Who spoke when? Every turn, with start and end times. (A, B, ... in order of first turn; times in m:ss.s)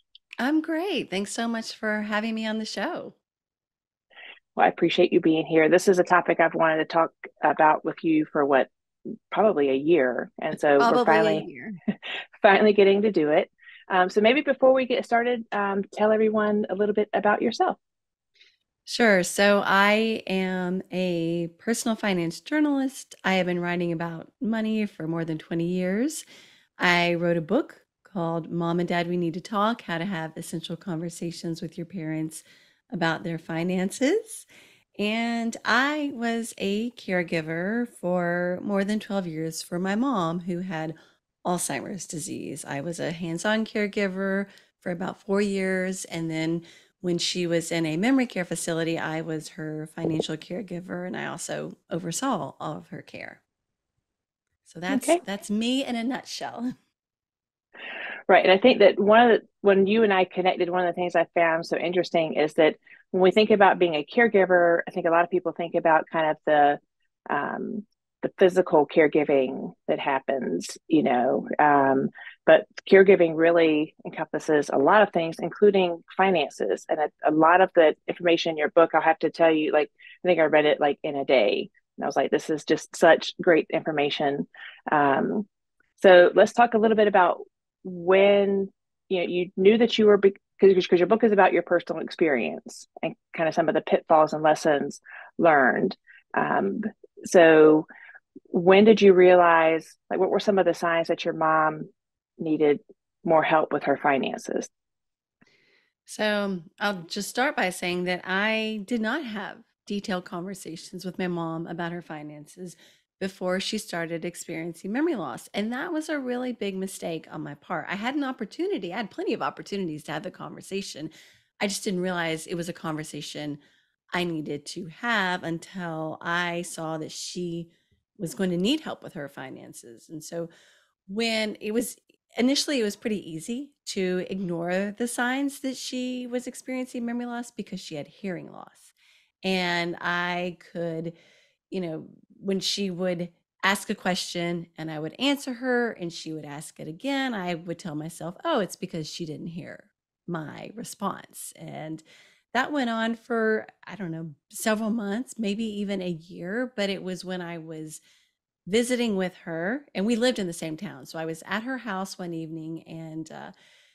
0:00.4-0:03.1 A
0:04.6-0:08.7 B
0:09.3-0:11.4 B
0:10.8-0:11.8 A
0:12.4-0:17.8 B
0:18.8-0:26.2 A
0:26.8-0:34.4 A
0:35.0-0:53.4 A
0:54.6-0:56.7 A
0:54.9-0:55.2 B
0:58.3-1:25.5 B
1:26.0-1:37.9 B
1:38.5-1:41.9 B
1:42.4-1:44.7 B
1:46.1-2:03.6 A
2:04.1-2:10.5 A
2:11.1-2:18.9 A
2:19.4-2:21.1 A
2:21.7-2:38.0 A
2:38.7-2:43.5 A